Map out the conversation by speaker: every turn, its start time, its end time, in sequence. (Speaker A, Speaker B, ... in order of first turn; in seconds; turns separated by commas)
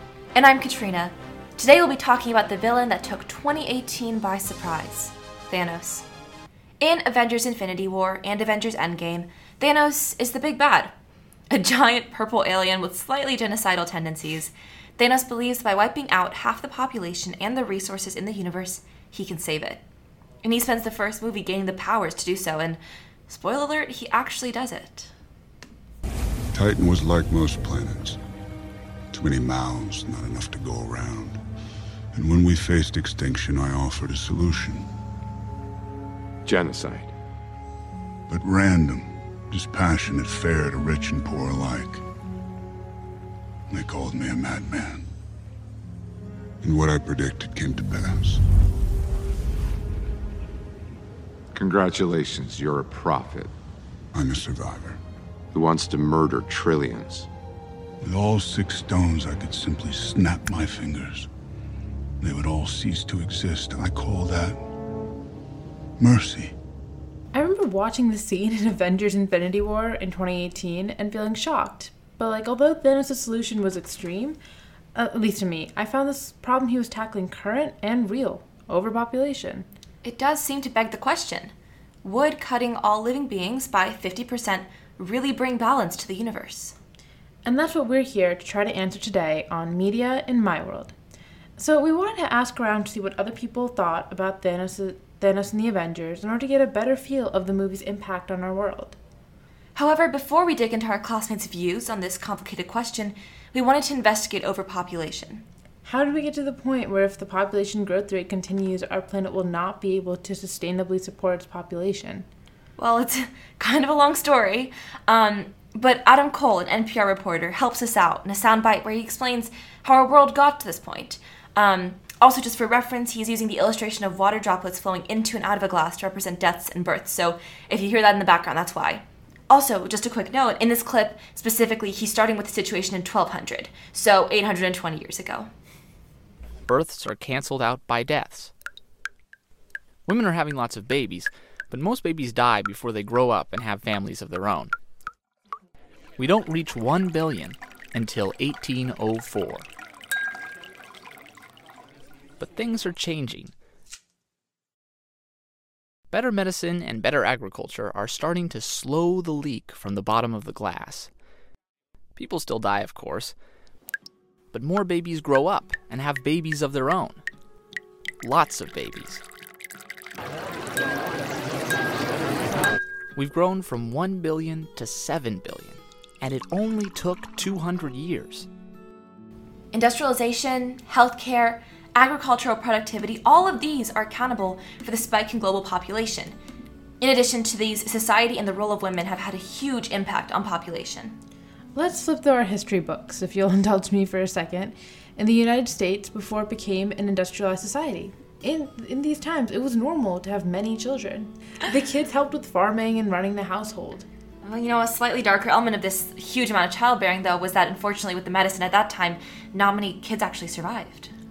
Speaker A: 0.3-6.1, Speaker A: 6.8-10.9, Speaker A: 11.5-19.8, Speaker A: 20.4-25.1, Speaker B: 26.5-28.2, Speaker B: 29.1-31.4, Speaker B: 32.1-34.9, Speaker C: 36.5-37.1, Speaker B: 38.3-42.0, Speaker B: 43.7-45.1, Speaker B: 46.6-48.4, Speaker C: 51.5-53.5, Speaker B: 54.1-55.0, Speaker C: 55.5-57.3, Speaker B: 58.0-61.3, Speaker B: 62.2-64.6, Speaker B: 66.0-66.5, Speaker D: 67.3-74.4, Speaker D: 75.0-79.7, Speaker A: 80.0-81.5, Speaker A: 82.0-86.8, Speaker D: 87.5-90.9, Speaker D: 91.6-99.0, Speaker A: 99.8-105.5, Speaker D: 105.8-112.3, Speaker A: 112.8-135.5, Speaker E: 136.7-138.5, Speaker E: 140.1-144.7, Speaker E: 146.2-149.7, Speaker E: 152.4-153.5, Speaker E: 156.1-161.1, Speaker E: 162.2-163.3, Speaker E: 164.5-167.2, Speaker E: 168.2-169.2, Speaker E: 173.2-178.5, Speaker A: 179.7-186.3, Speaker A: 187.0-191.2, Speaker D: 191.8-204.1, Speaker A: 204.4-211.1